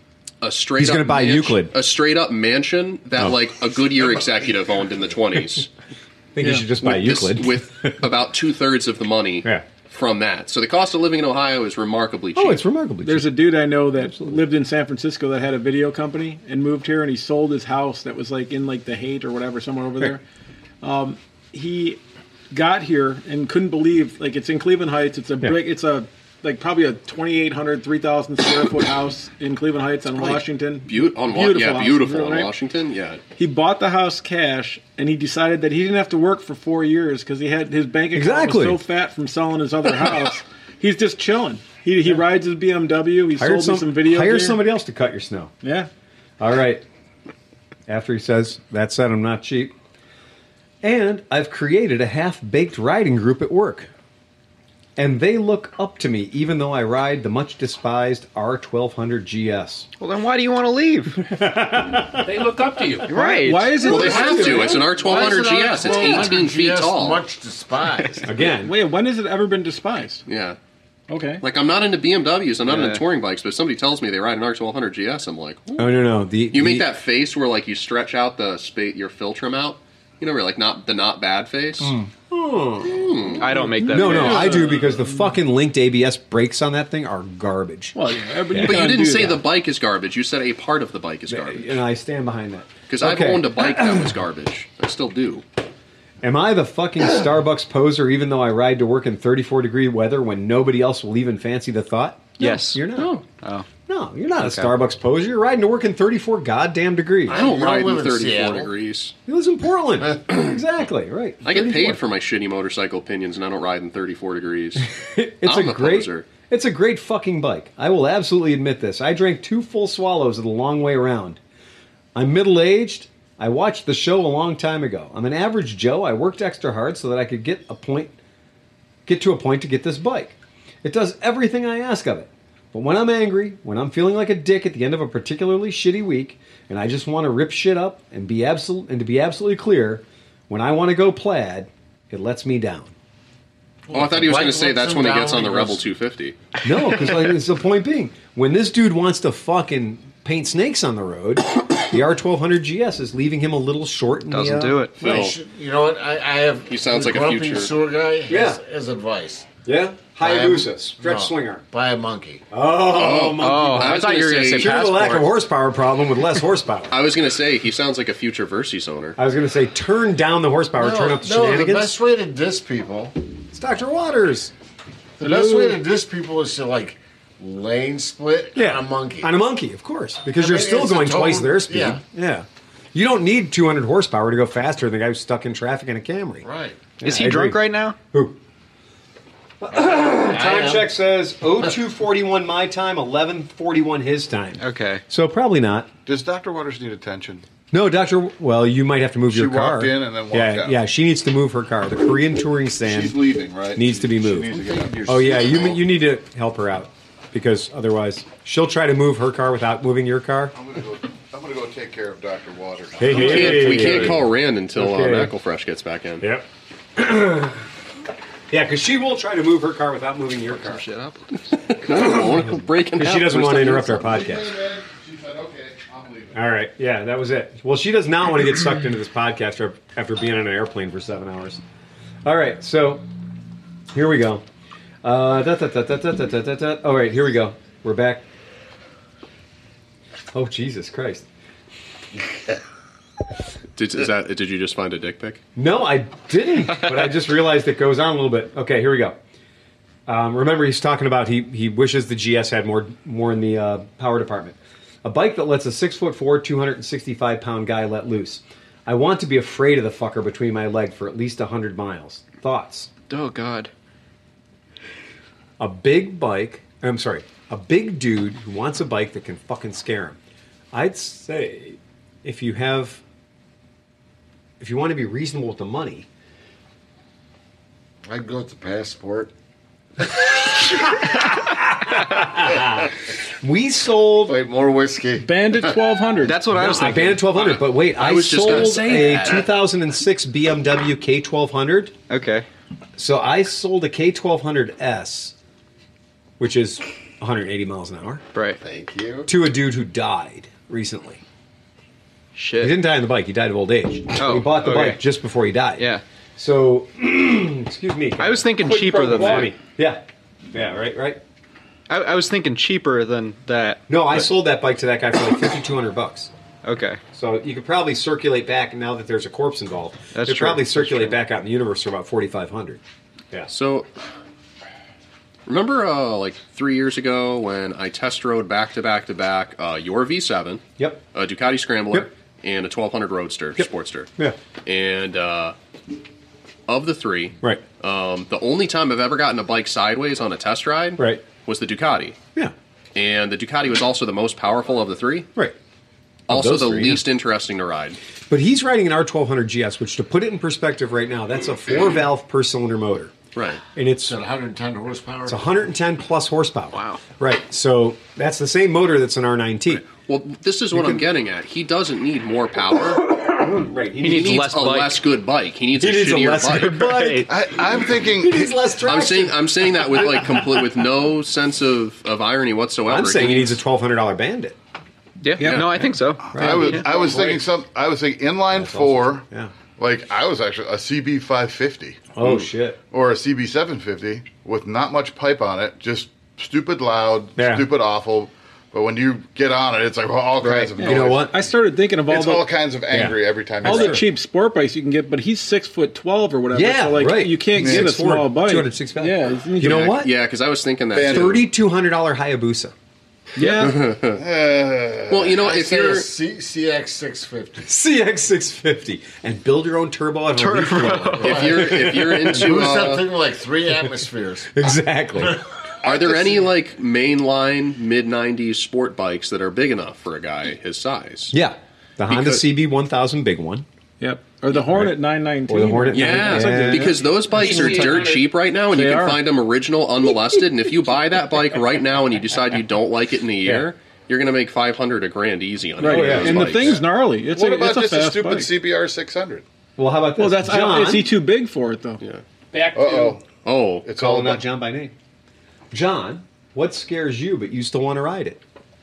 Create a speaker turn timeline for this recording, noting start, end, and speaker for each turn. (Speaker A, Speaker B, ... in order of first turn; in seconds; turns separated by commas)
Speaker A: 0.4-5.7, Speaker B: 0.8-1.7, Speaker B: 6.3-8.0, Speaker A: 6.8-12.6, Speaker B: 12.3-13.4, Speaker C: 13.0-20.2, Speaker B: 14.0-14.4, Speaker C: 20.8-22.0, Speaker C: 22.5-32.5, Speaker A: 30.9-33.2, Speaker C: 33.4-44.6, Speaker B: 38.1-38.8, Speaker B: 43.4-45.5, Speaker C: 45.6-45.9, Speaker B: 46.4-46.8, Speaker B: 47.9-49.7, Speaker B: 50.8-53.9, Speaker B: 55.0-59.9, Speaker D: 60.0-61.2, Speaker B: 61.2-62.4, Speaker E: 62.2-63.1, Speaker D: 63.0-64.0, Speaker C: 63.1-66.3, Speaker B: 63.8-64.9, Speaker A: 63.8-67.2, Speaker F: 65.0-68.3, Speaker B: 68.2-68.7, Speaker C: 68.6-70.2, Speaker A: 70.3-70.6, Speaker C: 71.1-71.4, Speaker A: 71.4-75.9, Speaker D: 72.7-73.0, Speaker B: 75.8-76.9, Speaker A: 76.5-81.9, Speaker B: 81.8-83.1, Speaker A: 82.9-83.5, Speaker D: 83.4-84.7, Speaker C: 83.5-85.2, Speaker B: 83.9-88.0, Speaker C: 88.0-89.4, Speaker B: 88.5-89.0, Speaker A: 88.6-91.8, Speaker B: 91.3-94.2, Speaker A: 92.9-95.4, Speaker B: 96.2-103.2, Speaker D: 102.4-103.7, Speaker B: 103.9-107.4, Speaker D: 104.4-104.8, Speaker F: 107.3-108.7, Speaker A: 107.3-109.1, Speaker B: 109.3-112.0, Speaker A: 111.5-114.9, Speaker B: 114.8-121.4, Speaker A: 115.4-116.3, Speaker B: 122.2-128.1, Speaker B: 129.1-142.9, Speaker F: 143.9-145.8, Speaker A: 143.9-146.4, Speaker B: 146.6-154.9, Speaker D: 154.3-155.0, Speaker A: 155.0-155.4, Speaker F: 155.0-159.5, Speaker A: 156.7-157.8, Speaker B: 158.3-158.6, Speaker B: 159.7-161.6, Speaker F: 160.2-162.4, Speaker B: 162.5-167.0, Speaker A: 162.9-164.8, Speaker D: 163.1-165.4, Speaker A: 166.9-169.2, Speaker B: 169.2-172.0, Speaker F: 170.8-173.2, Speaker B: 173.5-174.5, Speaker F: 175.2-179.3, Speaker C: 175.2-175.7, Speaker B: 178.6-186.5, Speaker F: 180.4-182.0, Speaker F: 186.4-186.9, Speaker B: 187.0-188.4, Speaker D: 187.0-188.0, Speaker B: 189.6-195.9, Speaker F: 189.8-190.9, Speaker D: 194.6-195.0, Speaker G: 196.1-197.4, Speaker B: 197.7-210.6, Speaker G: 199.3-200.8, Speaker G: 202.8-205.8, Speaker G: 210.5-214.2, Speaker B: 213.0-215.3, Speaker A: 213.1-216.3, Speaker B: 216.2-217.7, Speaker B: 218.5-220.9, Speaker D: 220.6-221.4, Speaker A: 221.5-224.1, Speaker B: 221.9-224.6, Speaker G: 224.0-226.4, Speaker B: 226.3-231.6, Speaker B: 232.2-233.1, Speaker B: 233.9-234.4, Speaker B: 235.0-238.2, Speaker B: 240.3-241.3, Speaker A: 243.8-245.4, Speaker B: 245.6-249.2, Speaker B: 250.1-262.9, Speaker D: 263.1-263.7, Speaker B: 265.6-270.2, Speaker B: 270.7-273.0, Speaker B: 274.6-276.1, Speaker F: 278.1-279.3, Speaker B: 281.9-284.4, Speaker F: 284.2-285.7, Speaker C: 285.2-286.4, Speaker D: 286.2-287.6, Speaker B: 286.5-292.0, Speaker A: 287.4-289.5, Speaker D: 288.5-289.1, Speaker D: 292.1-292.5, Speaker B: 293.0-295.4, Speaker B: 296.4-298.2, Speaker D: 298.3-298.6, Speaker F: 298.6-299.3, Speaker B: 299.3-301.2, Speaker D: 302.4-302.8, Speaker B: 302.6-311.2, Speaker D: 304.1-305.0, Speaker D: 308.2-309.5, Speaker E: 308.8-309.4, Speaker D: 311.9-314.3, Speaker B: 313.9-316.3, Speaker D: 316.6-317.0, Speaker B: 317.1-322.8, Speaker D: 320.1-321.2, Speaker A: 323.5-323.9, Speaker A: 325.5-330.6, Speaker B: 330.8-331.0, Speaker A: 331.1-334.1, Speaker B: 333.6-334.4, Speaker A: 334.6-335.6, Speaker A: 336.7-342.2, Speaker B: 341.0-341.2, Speaker A: 342.9-345.3, Speaker A: 346.3-348.0, Speaker B: 346.3-347.0, Speaker B: 348.3-353.1, Speaker A: 353.4-353.6, Speaker B: 353.8-354.1, Speaker F: 354.0-355.4, Speaker B: 355.3-359.9, Speaker D: 356.7-357.0, Speaker A: 360.0-363.0, Speaker B: 360.7-361.0, Speaker B: 362.9-364.6, Speaker D: 364.0-365.0, Speaker A: 364.0-367.1, Speaker B: 365.8-370.5, Speaker D: 366.9-367.3, Speaker G: 367.3-368.6, Speaker A: 368.8-373.6, Speaker B: 372.9-374.6, Speaker D: 375.2-376.9, Speaker A: 375.4-375.7, Speaker G: 376.3-379.3, Speaker B: 376.3-376.9, Speaker B: 378.5-379.5, Speaker G: 379.8-382.3, Speaker B: 382.1-382.8, Speaker G: 382.9-391.4, Speaker B: 387.4-387.7, Speaker B: 390.4-391.3, Speaker C: 390.8-392.5, Speaker G: 392.1-394.1, Speaker B: 392.9-394.1, Speaker C: 393.6-400.0, Speaker B: 396.5-400.1, Speaker G: 397.6-398.0, Speaker A: 399.6-401.4, Speaker G: 400.9-401.5, Speaker B: 401.0-402.7, Speaker C: 403.4-403.8, Speaker A: 403.6-404.2, Speaker G: 404.1-405.4, Speaker A: 405.1-406.1, Speaker F: 405.4-407.7, Speaker B: 407.6-412.6, Speaker D: 410.3-411.4, Speaker A: 411.2-413.1, Speaker F: 411.2-414.7, Speaker B: 414.5-415.4, Speaker G: 415.8-416.5, Speaker A: 415.8-421.4, Speaker B: 421.3-423.7, Speaker A: 422.1-422.4, Speaker C: 424.0-428.1, Speaker B: 424.5-427.0, Speaker A: 425.9-436.8, Speaker E: 427.3-428.3, Speaker C: 428.7-429.2, Speaker C: 435.8-438.5, Speaker B: 435.8-436.8, Speaker G: 437.2-439.4, Speaker B: 439.8-441.1, Speaker C: 440.2-442.0, Speaker E: 442.5-443.2, Speaker G: 442.7-443.2, Speaker A: 443.4-443.9, Speaker G: 443.8-444.4, Speaker B: 444.0-444.9, Speaker B: 445.7-448.4